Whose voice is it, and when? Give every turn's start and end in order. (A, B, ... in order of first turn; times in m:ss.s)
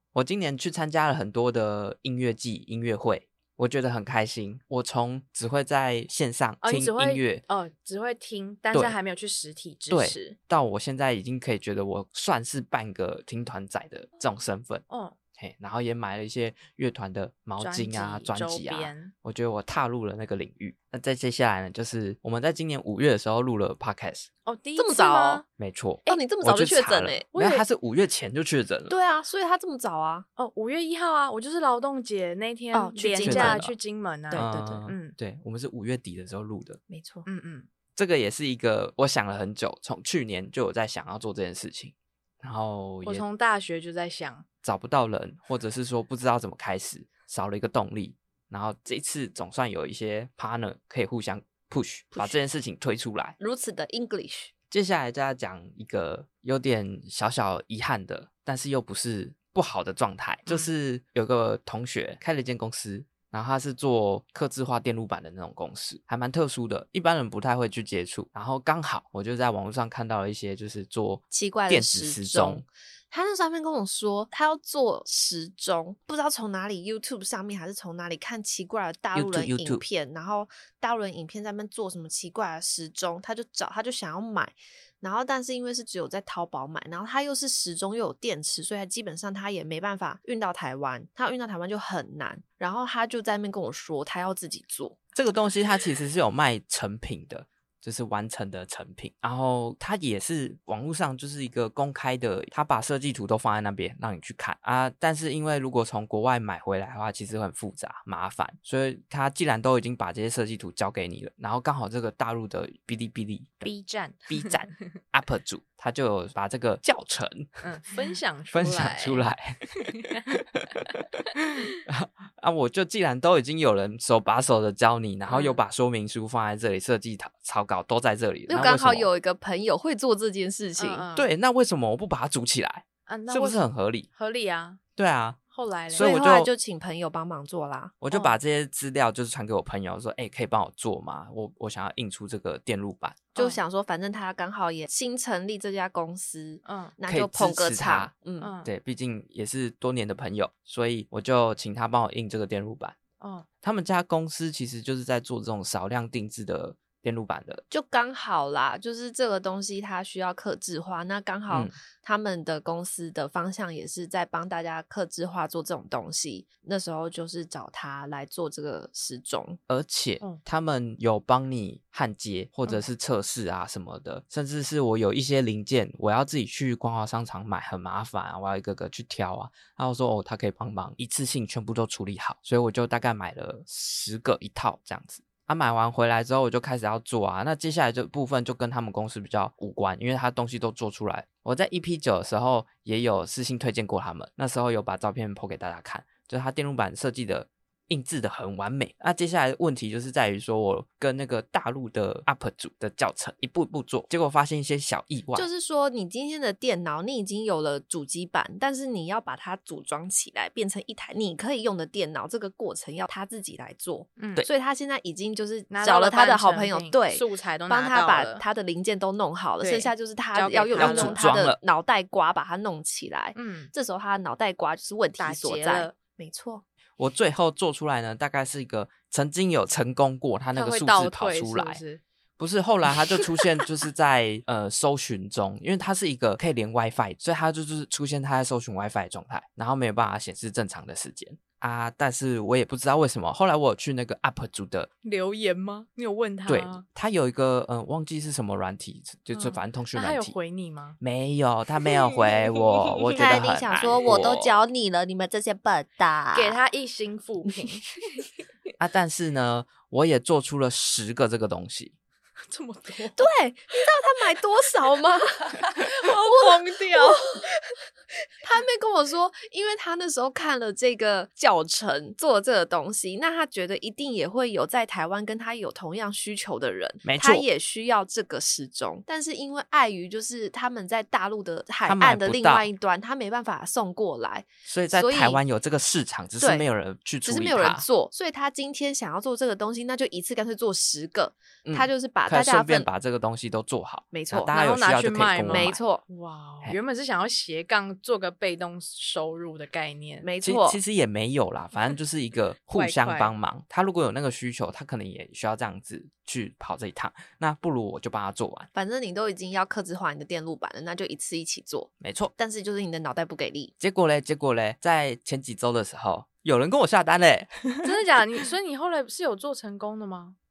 0:00.1-0:07.4 A
0:06.6-0:10.4 B
0:09.9-0:14.8 A
0:14.9-0:15.2 B
0:15.4-0:24.3 A
0:17.6-0:19.1 B
0:24.4-0:25.4 B
0:24.8-0:25.4 C
0:25.6-0:28.9 A
0:26.1-0:27.2 C
0:27.3-0:27.6 B
0:28.9-0:30.3 C
0:30.4-0:35.2 B
0:32.7-0:33.6 C
0:33.2-0:33.7 A
0:34.3-0:34.8 C
0:34.3-0:36.8 A
0:36.9-0:37.2 C
0:37.2-0:37.7 B
0:38.0-0:43.2 A
0:43.0-0:44.4 B
0:44.6-0:53.4 A
0:53.4-0:54.5 C
0:54.7-1:12.6 A
1:11.3-1:35.0 C
1:19.1-1:19.8 A
1:35.1-1:53.7 A
1:53.6-1:54.7 B
1:54.3-1:57.6 A
1:57.6-1:59.3 B
1:58.5-2:00.8 A
2:01.3-2:09.1 A
2:05.3-2:05.6 B
2:08.5-2:11.0 C
2:10.8-2:11.3 B
2:11.1-2:14.1 A
2:13.1-2:14.8 B
2:15.0-2:15.4 A
2:15.5-2:16.1 B
2:15.9-2:16.5 A
2:16.0-2:17.9 C
2:18.0-2:23.3 A
2:18.1-2:18.4 B
2:23.3-2:23.6 B
2:23.4-2:28.5 C
2:26.6-2:26.9 B
2:27.1-2:28.1 A
2:28.4-2:28.7 B
2:28.6-2:33.0 A
2:33.2-2:33.5 B
2:33.6-2:37.6 A
2:37.7-2:49.6 C
2:49.7-3:25.5 A
3:25.3-3:46.6 C
3:34.2-3:34.4 B
3:35.7-3:38.4 B
3:39.6-3:41.3 B
3:40.8-3:41.6 A
3:43.4-3:43.7 B
3:45.2-3:45.9 B
3:47.0-3:51.8 A
3:50.5-3:52.0 B
3:52.4-4:04.9 A
4:05.0-4:06.8 B
4:06.5-4:10.4 A
4:09.4-4:11.0 B
4:11.0-4:14.5 A
4:13.1-4:16.6 C
4:16.3-4:18.2 B
4:18.8-4:21.9 A
4:22.5-4:23.3 B
4:23.2-4:27.4 C
4:25.5-4:27.7 B
4:28.4-4:45.4 C
4:37.0-4:37.4 A
4:41.8-4:42.7 A
4:44.6-4:47.8 A
4:46.4-4:46.6 C
4:47.2-4:52.9 C
4:51.6-4:55.8 A
4:54.1-4:54.5 C
4:54.5-5:00.3 B
4:55.5-4:56.0 C
5:00.2-5:00.8 C
5:00.4-5:08.7 A
5:02.7-5:03.3 B
5:08.7-5:13.7 C
5:12.0-5:12.3 A
5:13.8-5:18.0 A
5:17.8-5:20.4 B